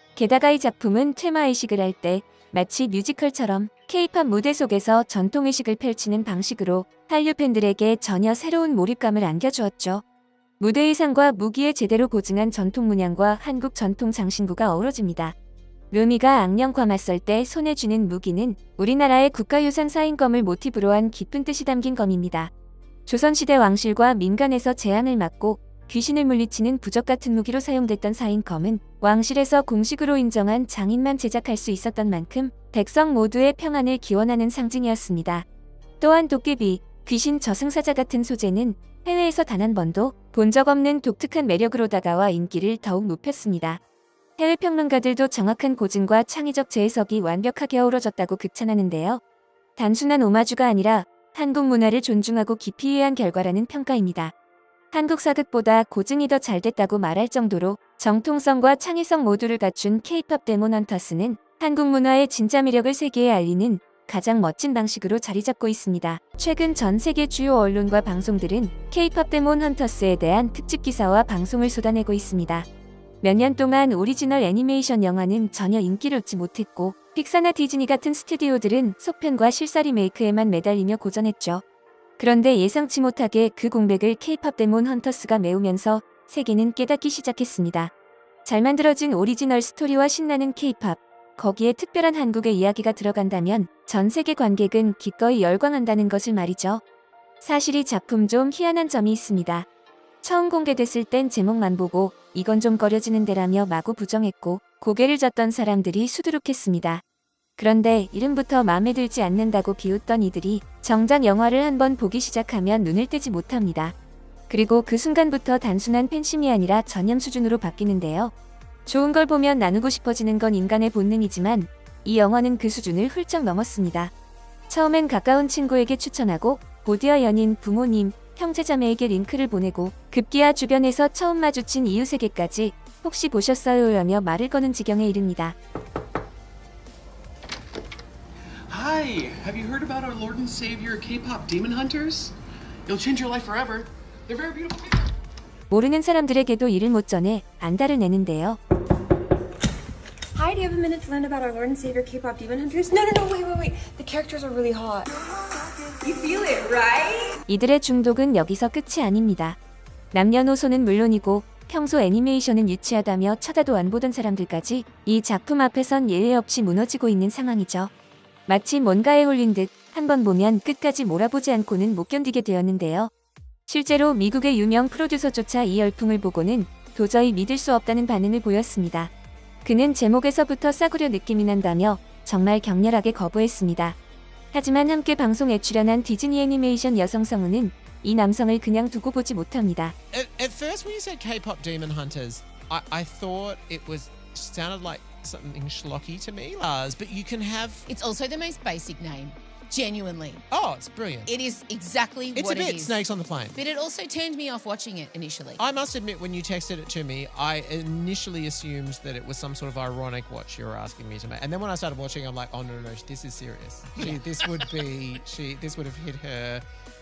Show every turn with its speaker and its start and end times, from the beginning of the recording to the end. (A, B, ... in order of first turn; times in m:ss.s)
0:00.2-0:10.0 A
0:10.6-0:15.4 A
0:15.9-0:22.5 A
0:23.1-0:35.4 A
0:36.0-0:43.8 A
0:44.4-0:49.2 A
0:49.8-0:54.3 A
0:54.9-1:12.7 A
1:13.2-1:21.6 A
1:22.2-1:27.9 A
1:28.4-1:36.8 A
1:37.4-1:39.7 A
1:40.2-1:47.0 A
1:47.6-1:53.9 A
1:54.5-1:58.3 A
1:58.9-2:04.1 A
2:04.7-2:15.6 A
2:18.7-2:22.3 B
2:22.9-2:25.1 B
2:25.7-2:28.6 A
2:30.4-2:33.4 C
2:37.5-2:39.6 A
2:40.1-2:47.9 A
2:48.5-2:53.1 A
2:53.7-2:59.1 A
2:59.6-3:04.0 A
3:04.5-3:10.0 A
3:10.1-3:17.9 D
3:17.9-3:20.4 E
3:20.5-3:21.3 D
3:21.2-3:25.6 E
3:22.4-3:23.6 D
3:25.6-3:36.6 D
3:34.0-3:34.2 E